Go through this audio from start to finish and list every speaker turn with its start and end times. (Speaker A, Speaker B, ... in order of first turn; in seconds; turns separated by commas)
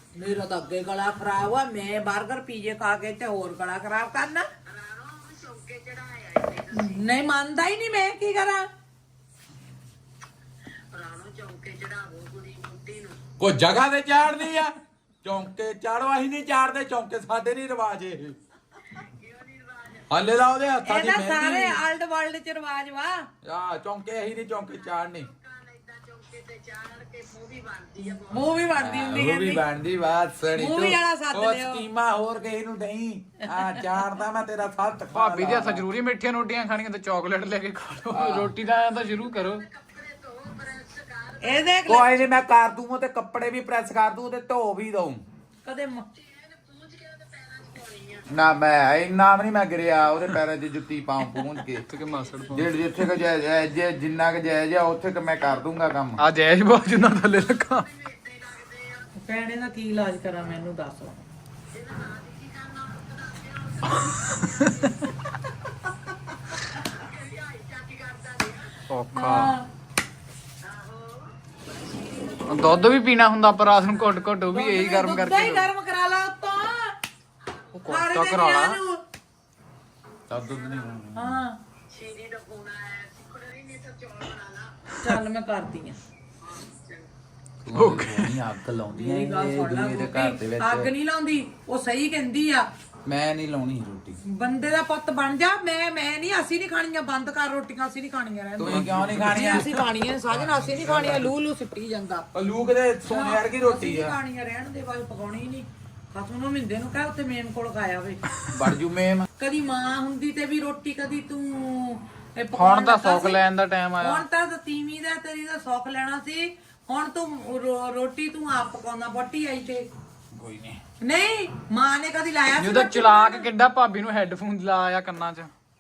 Speaker A: 0.1-4.5, Speaker B: 4.7-7.1, Speaker A: 6.7-8.7, Speaker B: 10.9-13.2, Speaker C: 13.4-18.4, Speaker B: 19.0-20.3, Speaker C: 20.1-21.8, Speaker A: 20.9-23.3, Speaker C: 23.4-25.3, Speaker B: 24.3-29.0, Speaker A: 28.2-29.6, Speaker C: 28.8-35.9, Speaker A: 30.5-31.9, Speaker A: 33.5-33.8, Speaker D: 35.1-39.6, Speaker C: 38.1-38.5, Speaker B: 38.9-42.1, Speaker A: 41.4-42.3, Speaker C: 41.9-45.2, Speaker A: 45.6-46.1, Speaker B: 46.1-48.3, Speaker C: 48.3-51.9, Speaker D: 51.9-52.7, Speaker B: 52.1-52.7, Speaker C: 52.5-56.2, Speaker D: 56.2-57.9, Speaker B: 57.2-59.1, Speaker A: 59.2-61.2, Speaker B: 61.7-65.1, Speaker D: 63.9-64.7, Speaker B: 66.5-68.8, Speaker D: 68.9-69.5, Speaker A: 69.1-69.7, Speaker B: 70.6-73.0, Speaker D: 72.5-75.7, Speaker B: 73.8-74.3, Speaker A: 74.5-77.0, Speaker B: 77.4-78.0, Speaker D: 77.8-78.8, Speaker A: 77.9-79.0, Speaker C: 80.3-81.4, Speaker B: 80.3-81.0, Speaker A: 81.2-81.6, Speaker B: 81.9-84.9, Speaker A: 85.0-86.0, Speaker B: 86.4-87.1, Speaker C: 87.6-90.9, Speaker D: 87.7-88.4, Speaker A: 88.9-92.7, Speaker C: 93.1-94.2, Speaker A: 94.2-102.3, Speaker C: 98.6-101.3, Speaker D: 98.6-99.6, Speaker C: 102.3-104.2, Speaker A: 103.1-108.2, Speaker C: 108.5-109.3, Speaker A: 109.4-113.5, Speaker D: 112.5-114.2, Speaker A: 114.0-119.9, Speaker C: 120.3-120.8, Speaker A: 121.0-123.5, Speaker D: 122.6-125.5